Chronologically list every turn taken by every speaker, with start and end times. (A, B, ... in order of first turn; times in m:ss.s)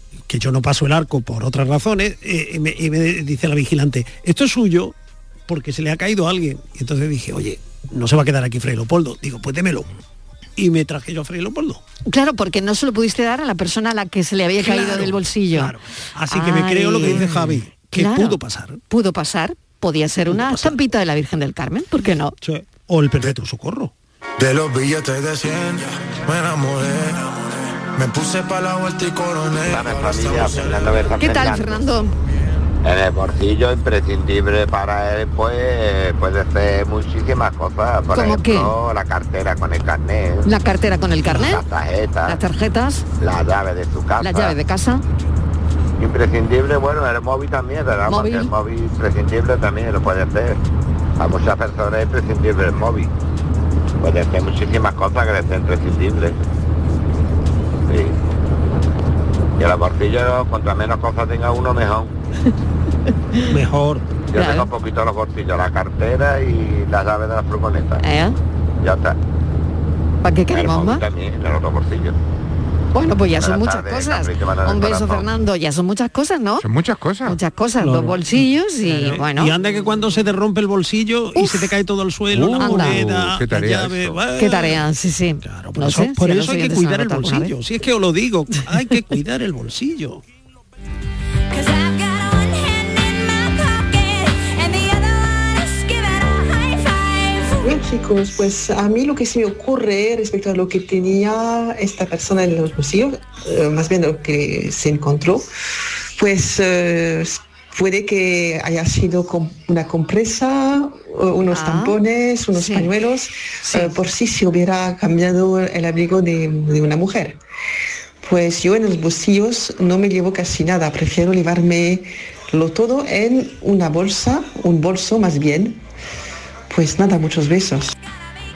0:00.3-0:04.9 A
0:05.5-0:09.9 A
0:10.6-0:11.8 A
0:12.1-0:15.7 B
0:14.6-0:18.8 A
0:16.3-0:17.2 B
0:17.9-0:22.3 B
0:20.3-0:20.8 A
0:22.4-0:23.9 A
0:24.4-0:31.0 C
0:29.7-0:31.8 D
0:31.2-0:32.1 B
0:32.8-0:40.5 D
0:38.1-0:38.7 B
0:40.4-0:41.6 B
0:41.3-0:42.4 D
0:42.2-0:43.0 B
0:43.2-0:44.6 D
0:44.2-0:45.0 B
0:46.0-0:50.6 D
0:48.1-0:48.5 B
0:51.2-0:53.1 D
0:54.0-0:56.4 D
0:57.9-0:58.1 D
0:59.6-1:02.1 D
1:03.5-1:04.0 A
1:04.3-1:08.0 D
1:04.3-1:04.7 B
1:08.0-1:08.4 B
1:08.8-1:09.2 D
1:10.2-1:11.0 B
1:10.5-1:12.2 D
1:12.9-1:16.6 B
1:13.3-1:15.3 D
1:16.6-1:17.4 E
1:17.2-1:19.5 B
1:17.8-1:24.8 A
1:21.3-1:21.7 B
1:22.3-1:24.2 E
1:22.6-1:23.0 B
1:24.3-1:27.5 B
1:25.4-1:30.2 A
1:37.6-1:45.5 F
1:46.2-1:57.4 F
1:51.5-1:52.0 B
1:52.5-1:52.9 B
1:53.6-1:54.0 B
1:58.2-2:05.8 F
2:06.7-2:07.9 F